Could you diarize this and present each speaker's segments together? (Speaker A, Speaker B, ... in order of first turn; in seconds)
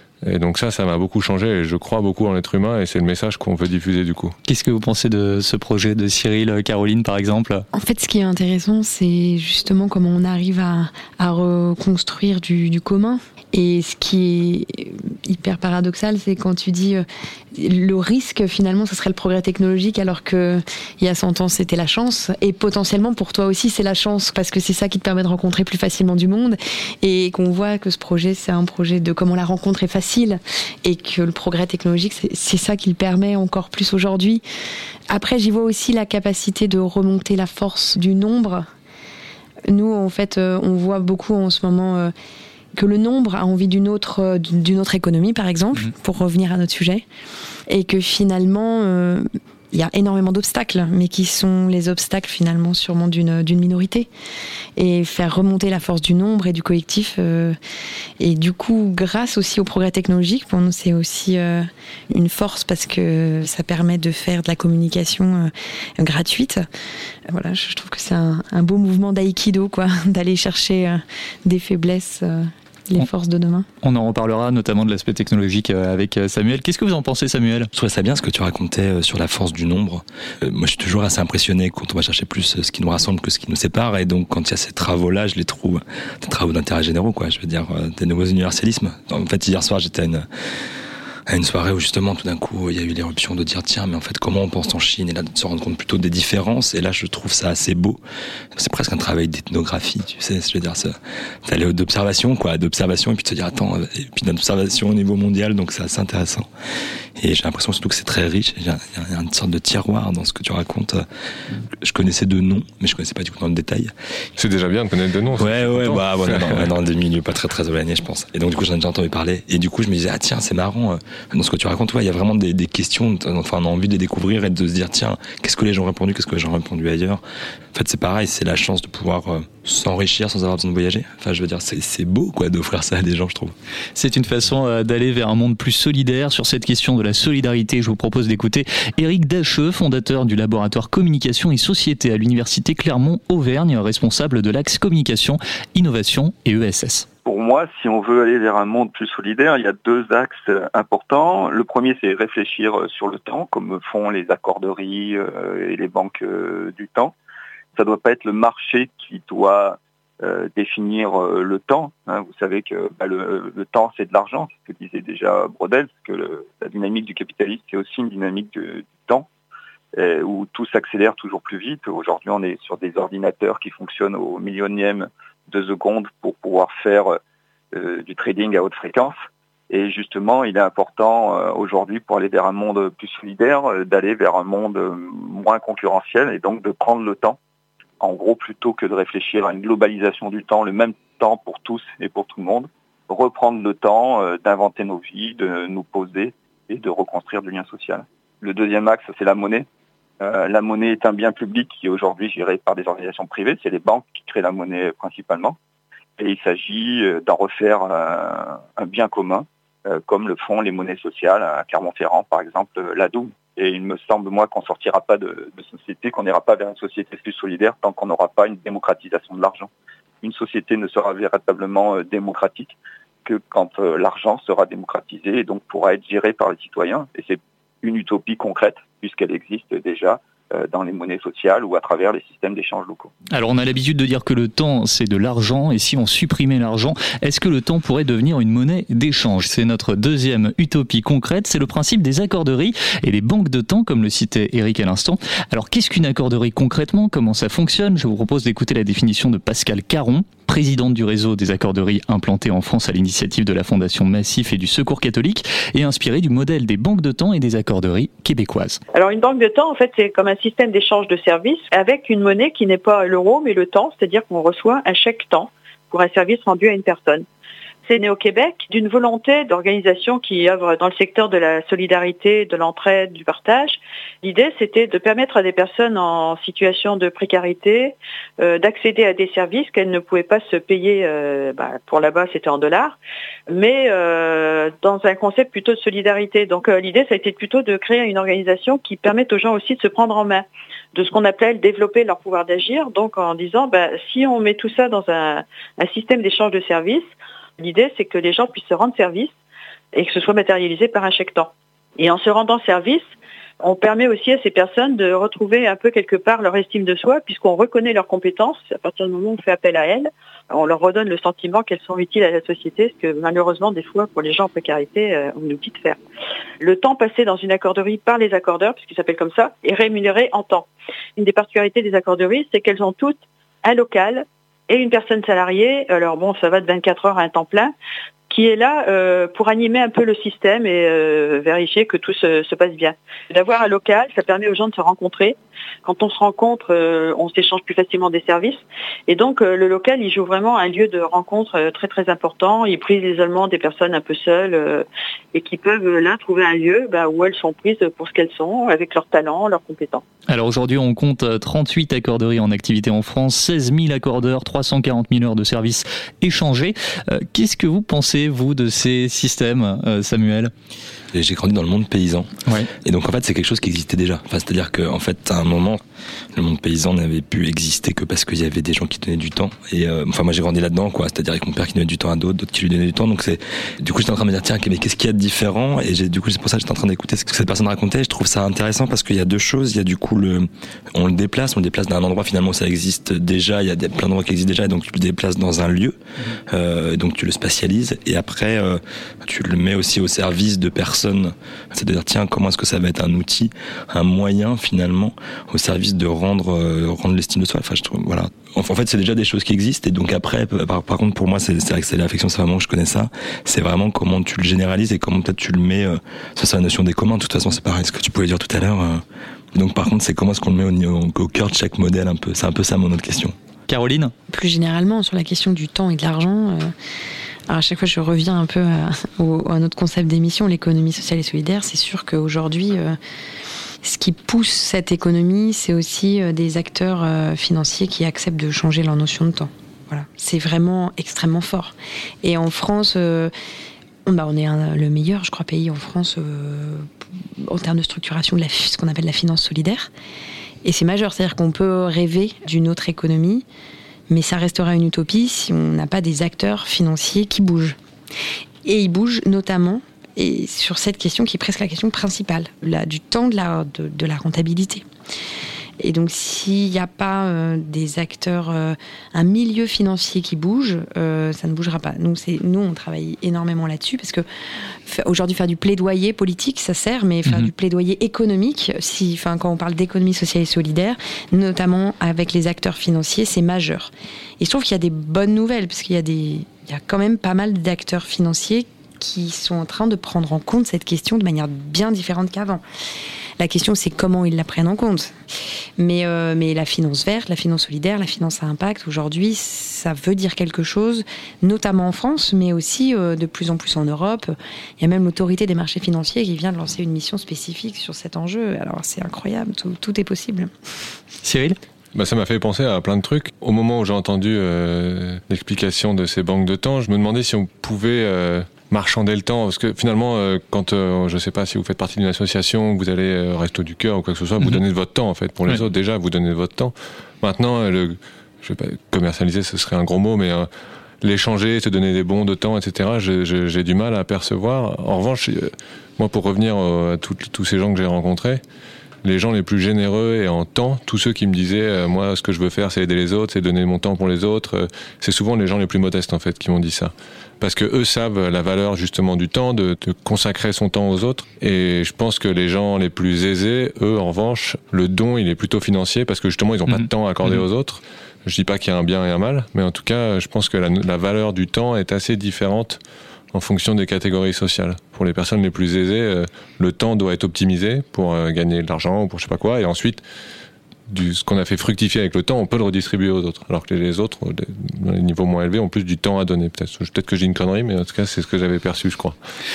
Speaker A: 0.2-4.3, 114.4-116.7, 501.9-520.5, 521.0-528.4, 529.0-552.8, 553.3-560.0, 560.9-569.1
Speaker B: 4.5-7.7, 73.8-77.7, 133.9-147.1, 233.3-258.8, 350.3-360.5, 413.7-414.1, 467.2-467.5, 501.2-501.6, 546.7-547.4
Speaker C: 7.7-34.4, 35.1-38.7, 39.7-42.1, 42.7-47.0, 47.7-54.1, 54.8-57.5, 58.2-66.7, 67.3-73.7, 414.3-416.7, 417.5-423.0, 423.8-433.3, 434.1-436.9, 437.4-439.9, 440.6-443.4, 444.1-447.8, 448.6-454.8, 455.8-464.2, 464.9-482.6, 483.4-485.1, 485.8-500.5
Speaker D: 77.7-90.3, 91.3-98.0, 98.5-106.5, 107.2-111.0, 111.8-113.9, 115.3-127.2, 127.7-133.5, 361.1-362.3, 362.8-365.8, 366.3-413.3
Speaker E: 147.2-157.1, 157.7-169.3, 169.9-177.2, 177.7-179.1, 179.7-187.4, 188.0-199.7, 200.2-205.6, 206.2-219.7, 220.2-233.1
Speaker F: 258.9-267.2, 267.9-283.0, 283.5-297.0, 297.6-299.3, 299.9-303.0, 303.6-316.0, 316.6-327.7, 328.3-350.0